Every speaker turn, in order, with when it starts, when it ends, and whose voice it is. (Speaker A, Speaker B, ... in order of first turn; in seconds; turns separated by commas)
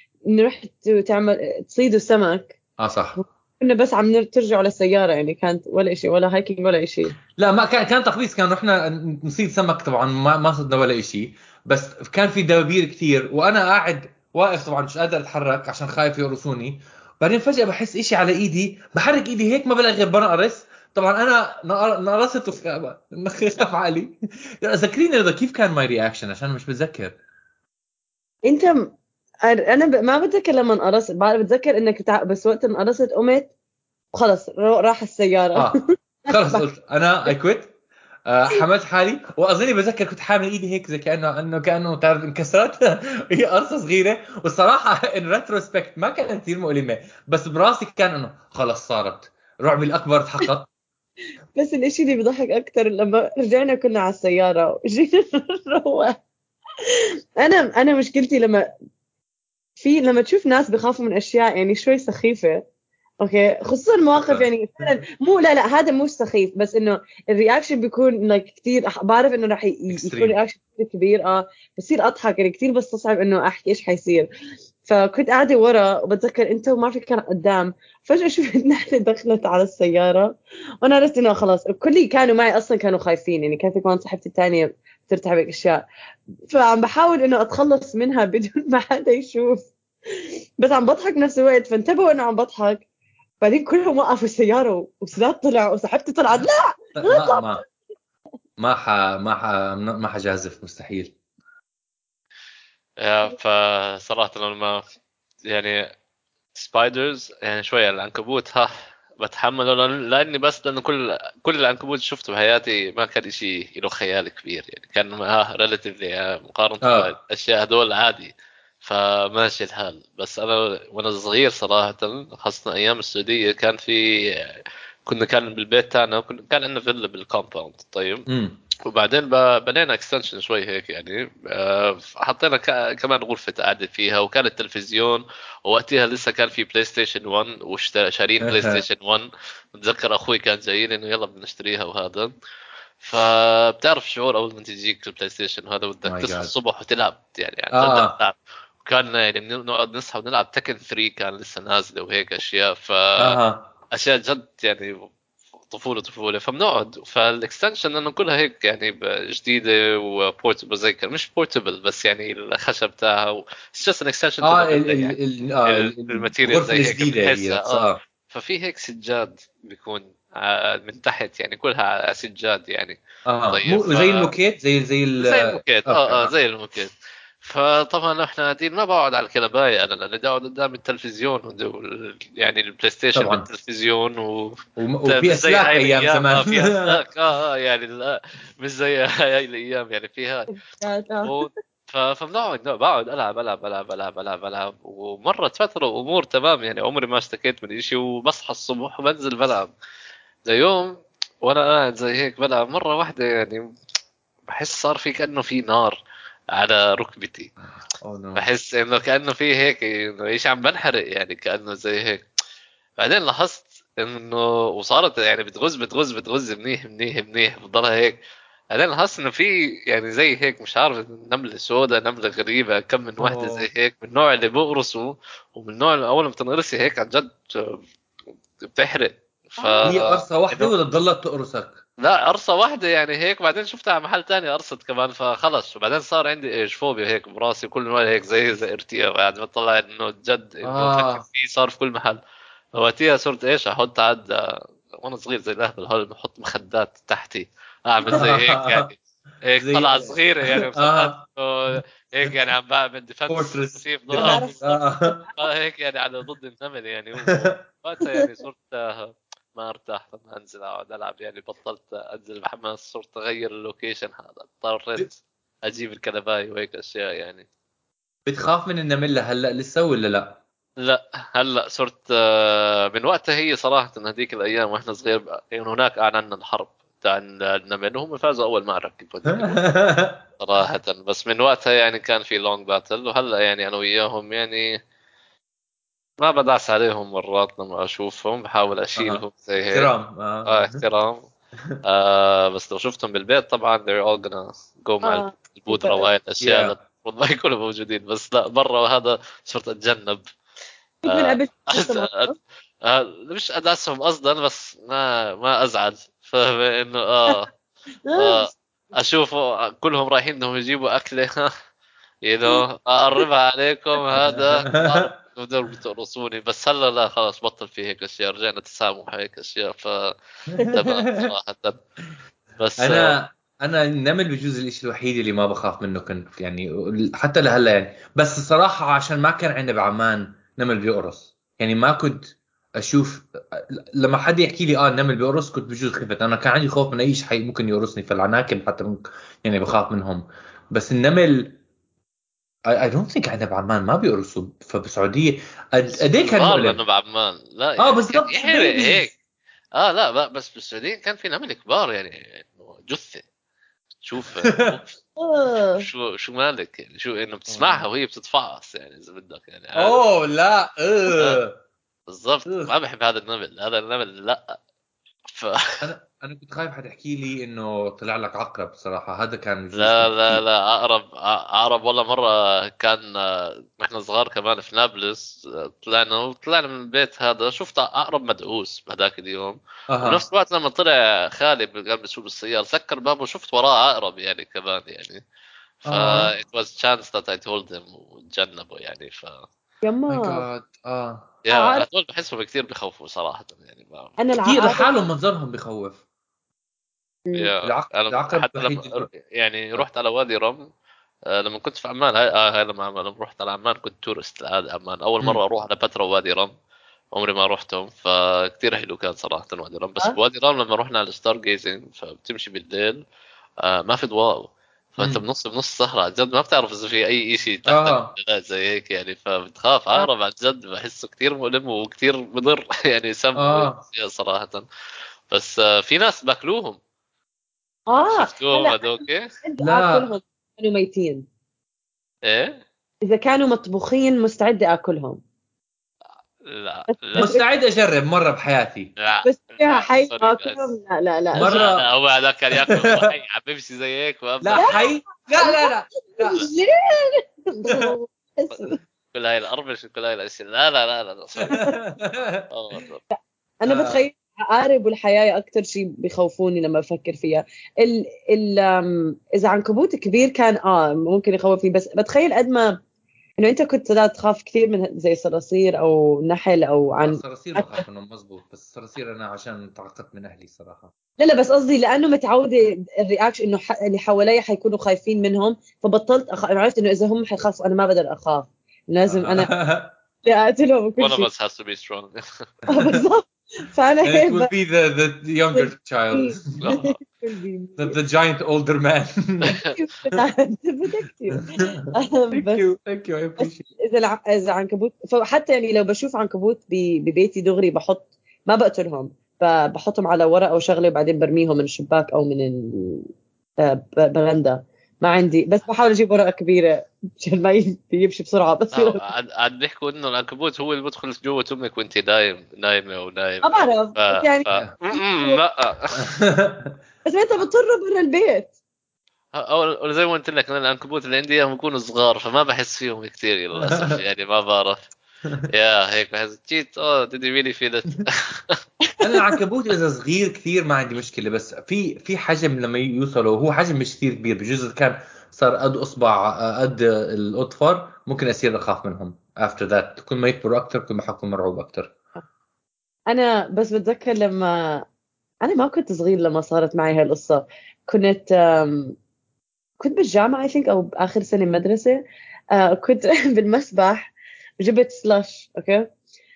Speaker A: 0.3-2.6, Speaker B: 2.8-3.2, Speaker A: 3.2-7.2, Speaker B: 7.4-27.2, Speaker A: 28.5-33.5, Speaker A: 34.1-35.7, Speaker B: 36.3-37.7, Speaker A: 36.3-36.6, Speaker B: 38.3-50.7, Speaker A: 51.6-56.2, Speaker A: 57.4-58.7, Speaker A: 59.8-62.6, Speaker A: 63.2-74.3, Speaker B: 64.2-64.9, Speaker B: 69.9-70.4, Speaker A: 74.8-85.8, Speaker A: 86.5-89.7, Speaker A: 90.6-92.8, Speaker A: 93.4-97.6, Speaker B: 97.0-97.6, Speaker B: 98.6-101.1, Speaker C: 103.0-104.8, Speaker C: 105.5-105.8, Speaker C: 106.5-118.3, Speaker B: 116.8-117.1, Speaker C: 118.8-128.3, Speaker B: 128.3-128.6, Speaker C: 128.9-142.3, Speaker B: 138.4-138.8, Speaker C: 143.0-153.4, Speaker B: 146.1-146.5, Speaker B: 147.7-148.2, Speaker B: 153.2-153.7, Speaker C: 153.9-155.1, Speaker C: 155.7-174.3, Speaker B: 164.4-168.0, Speaker B: 173.2-176.3, Speaker C: 175.2-190.5, Speaker B: 183.2-183.5, Speaker B: 184.8-187.0, Speaker A: 190.5-191.5, Speaker C: 191.2-199.7, Speaker C: 200.5-203.7, Speaker C: 204.5-206.0, Speaker C: 206.5-207.5, Speaker B: 208.0-208.4, Speaker C: 208.3-212.2, Speaker C: 213.0-218.2, Speaker C: 218.7-227.8, Speaker B: 223.2-223.7, Speaker C: 228.7-230.7, Speaker A: 229.6-229.9, Speaker B: 229.8-231.8, Speaker C: 232.0-242.2, Speaker B: 240.6-241.2, Speaker C: 242.8-267.5, Speaker B: 248.1-248.9, Speaker B: 249.6-251.2, Speaker B: 251.7-252.4, Speaker B: 253.3-255.3, Speaker A: 254.2-254.6, Speaker B: 268.3-270.4, Speaker C: 270.8-279.6, Speaker B: 279.3-280.2, Speaker C: 280.4-284.7, Speaker C: 286.2-289.9, Speaker B: 289.0-290.8, Speaker C: 290.5-291.3, Speaker C: 291.9-300.2, Speaker A: 295.0-296.1, Speaker B: 296.4-296.8, Speaker A: 301.0-302.4, Speaker C: 301.1-302.3, Speaker C: 302.8-307.5, Speaker A: 308.1-308.5, Speaker C: 308.1-311.5, Speaker C: 312.2-320.1, Speaker B: 314.2-315.1, Speaker B: 320.6-321.3, Speaker C: 320.7-321.8, Speaker C: 322.6-323.1, Speaker B: 322.8-341.6, Speaker B: 342.7-346.8, Speaker C: 346.0-349.1, Speaker B: 347.8-349.0, Speaker C: 349.8-353.2, Speaker C: 354.0-355.0, Speaker B: 354.4-354.8, Speaker A: 355.2-355.9, Speaker C: 355.8-360.0, Speaker B: 357.5-357.9, Speaker B: 359.8-361.6, Speaker C: 361.1-361.4, Speaker C: 362.1-364.6, Speaker B: 362.5-362.7, Speaker C: 365.3-365.7, Speaker B: 365.8-370.4, Speaker C: 369.8-385.2, Speaker B: 379.9-380.2, Speaker B: 385.9-386.3, Speaker C: 385.9-389.5, Speaker A: 389.8-390.4, Speaker B: 390.1-391.3, Speaker C: 391.4-394.2, Speaker A: 391.5-391.9, Speaker A: 394.2-394.9, Speaker B: 394.4-396.0, Speaker A: 397.3-397.5, Speaker C: 397.4-400.6, Speaker B: 397.6-399.1, Speaker C: 401.3-406.5, Speaker C: 407.1-413.0, Speaker C: 413.6-424.6, Speaker B: 417.7-418.1, Speaker B: 423.4-423.8, Speaker C: 425.3-426.8, Speaker A: 427.9-428.8, Speaker C: 428.0-429.3, Speaker A: 429.4-431.3, Speaker B: 429.6-430.1, Speaker C: 432.3-432.5, Speaker A: 433.1-435.2, Speaker C: 436.5-437.4, Speaker A: 437.1-437.4, Speaker B: 437.2-438.9, Speaker C: 439.0-440.7, Speaker A: 439.2-441.6, Speaker B: 441.3-441.8, Speaker C: 441.4-444.8, Speaker B: 442.7-443.1, Speaker B: 444.4-446.5, Speaker A: 444.6-448.8, Speaker C: 449.1-451.6, Speaker B: 451.4-452.5, Speaker C: 452.5-453.0, Speaker A: 453.2-462.8, Speaker B: 453.7-454.1, Speaker A: 463.4-467.8, Speaker B: 467.0-470.9, Speaker A: 471.2-479.5, Speaker B: 479.1-480.0, Speaker A: 480.2-481.3, Speaker C: 481.0-482.2, Speaker A: 482.7-484.5, Speaker B: 482.7-483.0, Speaker B: 484.1-486.8, Speaker A: 485.5-488.0, Speaker C: 486.6-487.0, Speaker B: 487.8-489.6, Speaker A: 489.6-492.6, Speaker B: 491.6-493.7, Speaker A: 493.4-503.1, Speaker A: 503.6-509.0, Speaker C: 508.7-516.0, Speaker A: 513.4-515.4, Speaker B: 516.0-516.8, Speaker A: 517.1-518.5, Speaker C: 519.4-524.8, Speaker B: 523.6-524.0, Speaker C: 525.5-528.6, Speaker A: 528.9-529.3, Speaker B: 529.0-541.9, Speaker A: 543.1-544.8, Speaker A: 545.4-549.0, Speaker A: 549.8-552.0, Speaker A: 552.5-555.9